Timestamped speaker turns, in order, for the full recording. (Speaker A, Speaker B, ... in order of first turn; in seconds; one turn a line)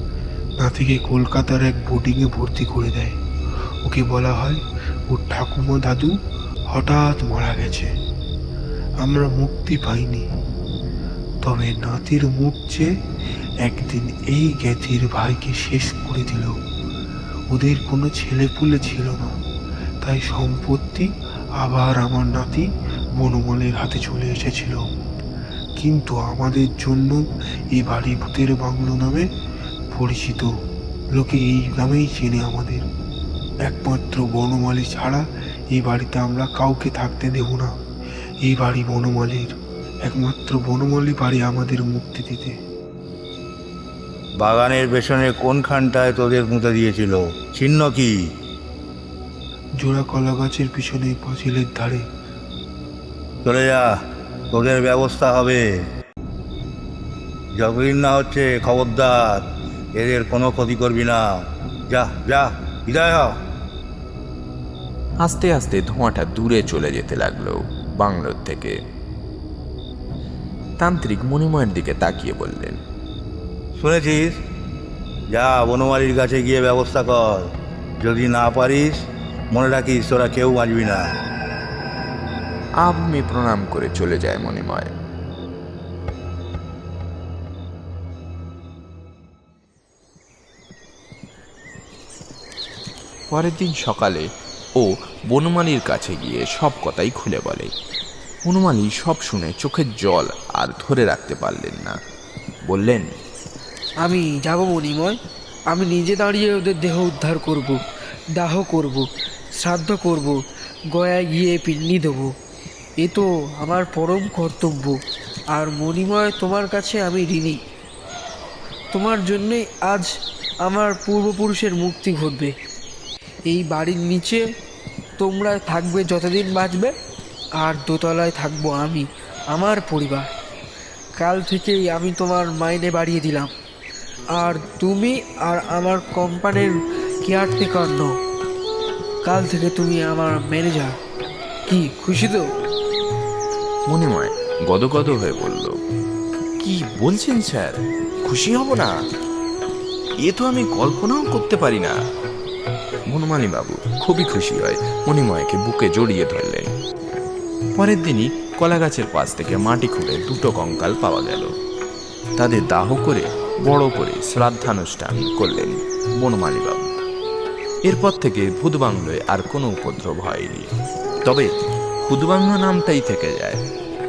Speaker A: 0.6-3.2
Speaker A: 3.8-6.1
Speaker A: 6.7-7.9
Speaker A: 9.0-10.2
Speaker A: 11.4-12.9
Speaker A: 13.6-16.5
Speaker A: 17.5-19.3
Speaker A: 20.0-21.1
Speaker A: 21.6-22.7
Speaker A: 23.2-24.8
Speaker A: 25.8-27.2
Speaker A: 27.7-29.3
Speaker A: 29.9-30.5
Speaker A: 31.1-32.9
Speaker A: 33.6-37.7
Speaker A: 38.4-39.5
Speaker A: 40.0-42.5
Speaker B: 44.4-48.1
Speaker A: 49.8-52.0
Speaker B: 53.5-53.9
Speaker B: 54.5-55.7
Speaker B: 57.5-61.3
Speaker B: 61.9-63.3
Speaker C: 65.2-68.8
Speaker C: 70.8-72.8
Speaker B: 73.8-74.3
Speaker B: 75.3-77.5
Speaker B: 78.0-81.1
Speaker C: 82.8-84.9
Speaker C: 93.3-94.3
Speaker C: 94.8-97.7
Speaker C: 98.5-102.0
Speaker C: 102.7-103.1
Speaker D: 104.0-105.2
Speaker D: 105.7-107.8
Speaker D: 108.4-109.1
Speaker D: 109.6-110.4
Speaker D: 110.9-112.3
Speaker D: 113.0-115.0
Speaker D: 115.5-117.6
Speaker D: 118.9-120.1
Speaker D: 120.6-122.5
Speaker D: 123.5-124.4
Speaker D: 125.2-126.9
Speaker D: 127.6-130.3
Speaker D: 131.2-133.5
Speaker D: 134.3-138.1
Speaker D: 139.2-140.9
Speaker D: 141.7-142.5
Speaker C: 143.9-145.8
Speaker C: 146.6-148.9
Speaker C: 150.2-151.9
Speaker C: 153.1-156.7
Speaker C: 157.8-161.5
Speaker C: 162.4-166.9
Speaker C: 167.9-170.7
Speaker C: 171.3-171.5
Speaker C: 172.0-173.6